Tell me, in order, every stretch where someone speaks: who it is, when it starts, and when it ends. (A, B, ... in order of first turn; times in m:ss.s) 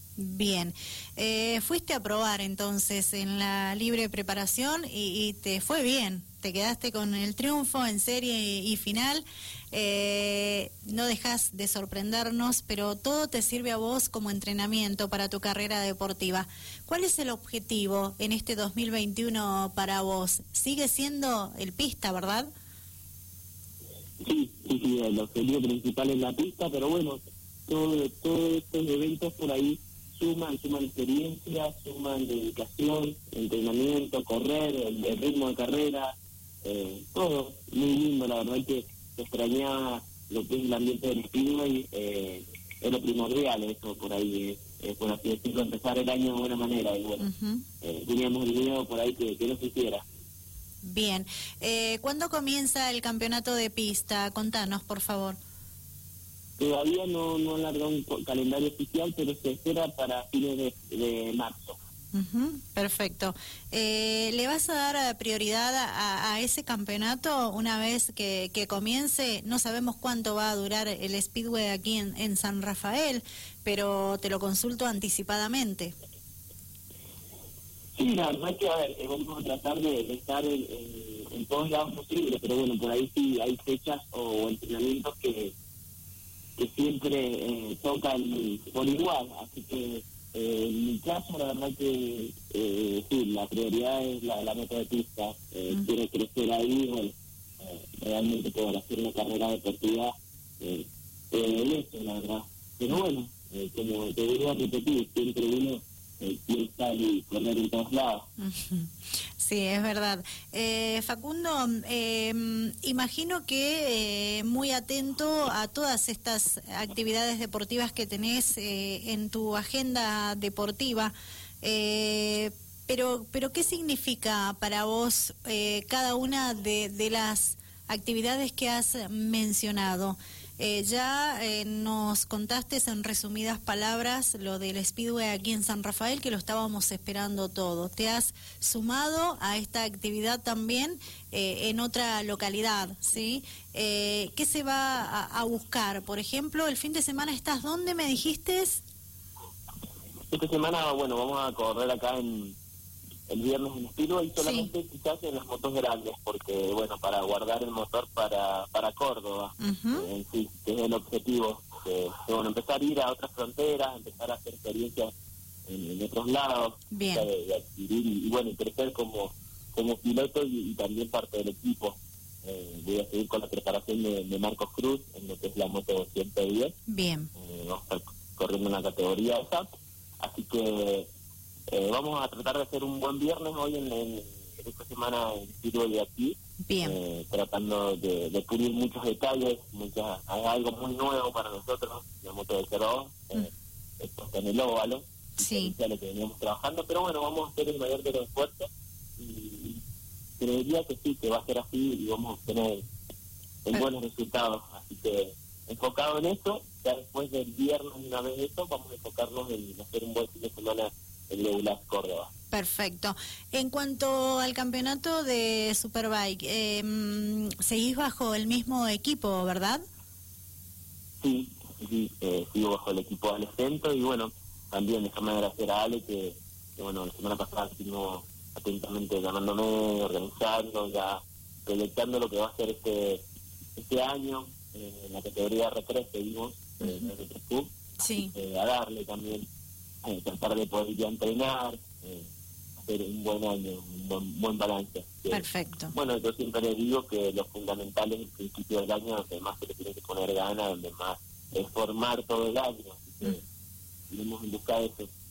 0:00.2-0:22.5 A
0:24.2-0:47.3 B
0:47.2-0:47.6 A
0:47.8-0:50.0 B
0:50.8-0:55.4 A
0:56.6-1:01.8 B
1:02.1-1:15.9 A
1:18.0-1:25.5 B
1:26.6-1:48.3 B
1:48.4-2:28.8 A
2:30.3-2:32.6 B
2:33.3-2:45.1 B
2:34.4-2:34.7 A
2:39.6-2:40.1 A
2:45.6-2:56.7 B
2:46.9-2:47.3 A
2:56.9-2:57.3 A
2:57.3-2:59.6 B
3:00.2-3:01.1 B
3:01.7-3:19.8 B
3:06.6-3:07.0 A
3:15.4-3:15.7 A
3:20.4-3:22.8 B
3:23.6-3:32.3 B
3:32.5-3:39.8 A
3:41.2-3:53.2 B
3:53.8-3:59.4 B
3:56.8-3:57.1 A
3:58.0-3:58.3 A
4:00.0-4:02.3 B
4:02.8-4:13.4 B
4:05.3-4:05.9 A
4:14.1-4:15.1 B